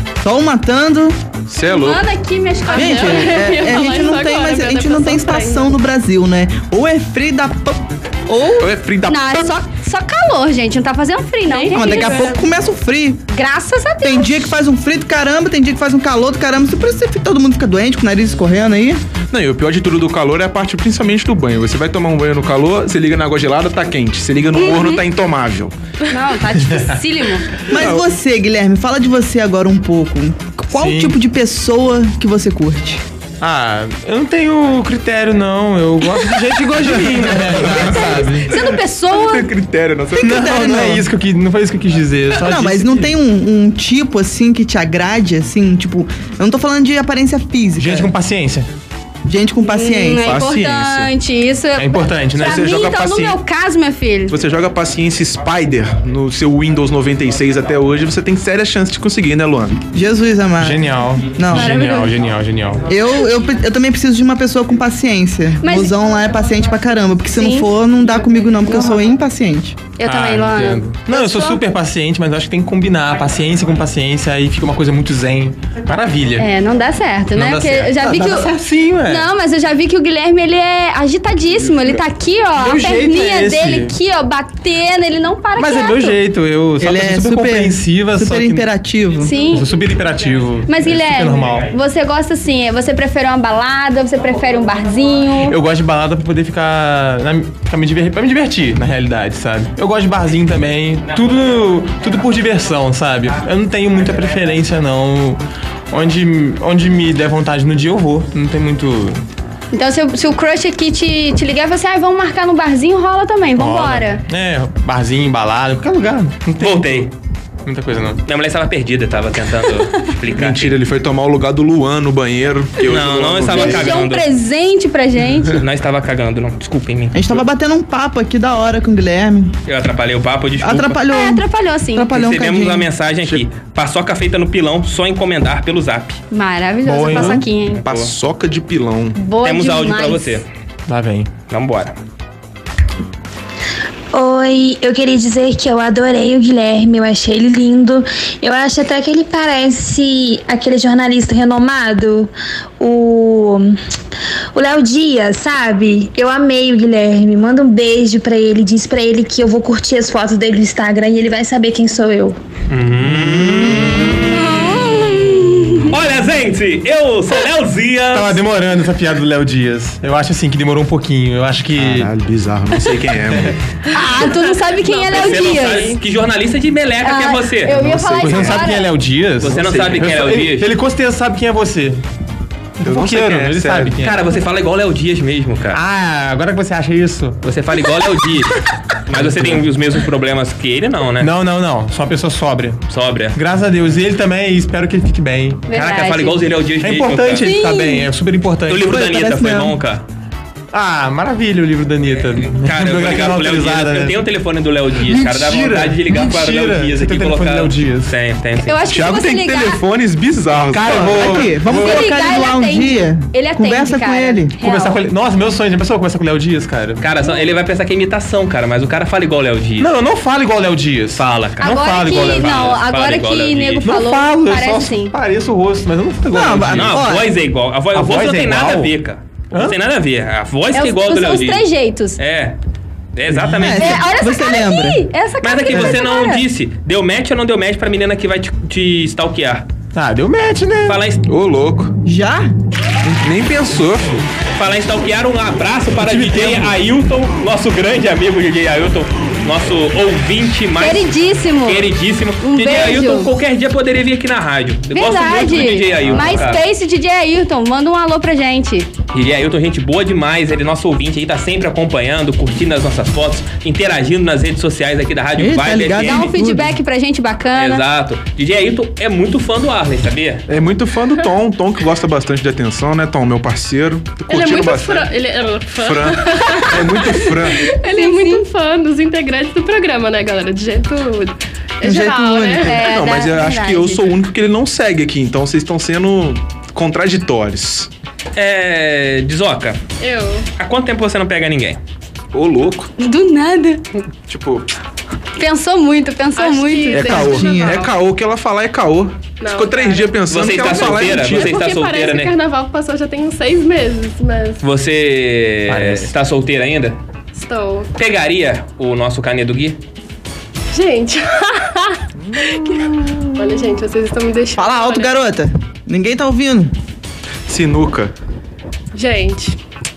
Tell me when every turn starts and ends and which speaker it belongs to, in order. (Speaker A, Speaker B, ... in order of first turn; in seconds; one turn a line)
Speaker A: 0.2-1.2
Speaker B: 1.5-2.1
Speaker C: 1.6-3.4
Speaker D: 2.6-5.7
Speaker A: 2.7-8.7
Speaker B: 8.6-9.5
Speaker C: 9.1-12.3
Speaker D: 11.4-12.4
Speaker A: 11.7-13.2
Speaker C: 13.3-14.3
Speaker A: 14.0-19.0
Speaker B: 19.3-25.7
Speaker C: 24.5-25.0
Speaker C: 26.1-27.6
Speaker A: 27.7-33.0
Speaker B: 27.7-28.1
Speaker E: 30.7-31.2
Speaker E: 33.4-38.5
Speaker B: 36.8-40.5
Speaker C: 37.9-39.5
Speaker A: 40.2-41.1
Speaker E: 40.2-43.1
Speaker A: 42.3-48.1
Speaker E: 47.8-48.7
Speaker A: 49.2-50.3
Speaker C: 49.6-54.4
Speaker B: 50.2-51.1
Speaker E: 51.8-52.6
Speaker B: 52.3-53.4
Speaker B: 54.3-59.8
Speaker A: 59.9-61.9
Speaker E: 60.6-62.9
Speaker C: 61.5-62.1
Speaker A: 62.9-69.9
Speaker C: 65.6-65.9
Speaker C: 67.3-67.7
Speaker C: 68.7-69.0
Speaker C: 69.9-71.6
Speaker E: 70.0-76.5
Speaker C: 76.4-86.2
Speaker E: 77.3-79.3
Speaker E: 82.5-83.9
Speaker E: 85.5-88.7
Speaker A: 86.8-89.4
Speaker C: 89.2-89.7
Speaker E: 89.5-91.7
Speaker C: 90.7-95.5
Speaker E: 95.5-109.2
Speaker C: 109.7-114.2
Speaker E: 113.5-117.1
Speaker F: 116.6-117.1
Speaker E: 117.7-118.2
Speaker F: 118.2-120.8
Speaker B: 120.3-123.9
Speaker F: 122.8-124.2
Speaker C: 123.5-125.6
Speaker F: 125.5-127.4
Speaker A: 127.1-129.5
Speaker F: 129.7-131.0
Speaker A: 130.6-132.9
Speaker C: 131.1-132.1
Speaker F: 132.1-136.2
Speaker C: 136.3-137.8
Speaker E: 136.8-137.5
Speaker B: 137.2-139.2
Speaker F: 137.7-138.1
Speaker C: 139.1-140.4
Speaker F: 139.4-140.4
Speaker E: 140.9-141.3
Speaker F: 141.5-141.9
Speaker G: 144.1-153.7
Speaker G: 154.5-162.3
Speaker F: 162.7-164.9
Speaker C: 164.2-165.9
Speaker F: 165.8-168.4
Speaker E: 168.1-172.1
Speaker B: 171.7-173.6
Speaker C: 173.9-175.9
Speaker D: 173.9-176.0
Speaker F: 175.1-177.8
Speaker C: 177.0-178.9
Speaker B: 177.8-178.7
Speaker E: 178.1-182.0
Speaker F: 179.4-180.7
Speaker B: 179.5-180.1
Speaker E: 182.8-184.2
Speaker B: 182.8-184.0
Speaker F: 184.0-185.8
Speaker E: 185.7-187.4
Speaker F: 187.4-191.3
Speaker E: 189.1-189.7
Speaker E: 191.2-192.8
Speaker F: 192.9-193.4
Speaker E: 193.3-195.6
Speaker C: 195.7-196.4
Speaker F: 195.7-197.5
Speaker E: 196.8-199.0
Speaker C: 197.4-198.1
Speaker F: 198.7-200.0
Speaker A: 198.9-199.8
Speaker E: 200.7-204.2
Speaker F: 202.2-208.8
Speaker E: 205.0-208.1
Speaker C: 208.6-209.8
Speaker B: 208.9-211.4
Speaker E: 210.7-212.1
Speaker A: 210.9-214.6
Speaker C: 211.7-215.0
Speaker E: 214.6-217.0
Speaker F: 217.0-219.9
Speaker E: 219.8-222.7
Speaker F: 221.1-223.9
Speaker C: 221.6-225.1
Speaker E: 223.8-227.1
Speaker A: 226.3-227.3
Speaker F: 226.7-232.6
Speaker E: 227.9-228.9
Speaker E: 229.5-229.8
Speaker C: 230.7-232.2
Speaker F: 233.1-234.0
Speaker A: 233.4-235.1
Speaker C: 233.7-236.4
Speaker F: 235.4-239.7
Speaker E: 239.9-241.0
Speaker F: 240.8-241.2
Speaker B: 241.2-241.9
Speaker A: 242.0-242.5
Speaker B: 243.0-244.2
Speaker F: 244.6-251.1
Speaker E: 246.0-246.8
Speaker C: 250.8-253.3
Speaker F: 251.6-256.6
Speaker C: 254.9-258.9
Speaker F: 259.1-266.3
Speaker A: 265.4-266.7
Speaker C: 266.0-267.8
Speaker F: 267.5-270.5
Speaker B: 270.5-275.1
Speaker D: 274.3-282.8
Speaker B: 275.7-277.7
Speaker C: 277.9-278.4
Speaker A: 281.8-282.8
Speaker C: 282.6-284.1
Speaker B: 282.7-287.9
Speaker F: 288.4-289.8
Speaker D: 290.0-290.5
Speaker F: 290.6-291.8
Speaker B: 292.3-292.9
Speaker C: 293.0-293.8
Speaker B: 294.3-294.7
Speaker C: 295.4-297.3
Speaker D: 296.3-297.9
Speaker B: 296.9-301.6
Speaker A: 297.1-297.8
Speaker D: 299.4-304.6
Speaker F: 300.3-302.3
Speaker F: 304.6-307.0
Speaker E: 305.7-306.1
Speaker D: 307.3-307.9
Speaker F: 307.9-309.8
Speaker D: 310.7-315.1
Speaker B: 312.2-312.9
Speaker A: 314.6-316.7
Speaker B: 317.5-318.1
Speaker D: 318.9-319.6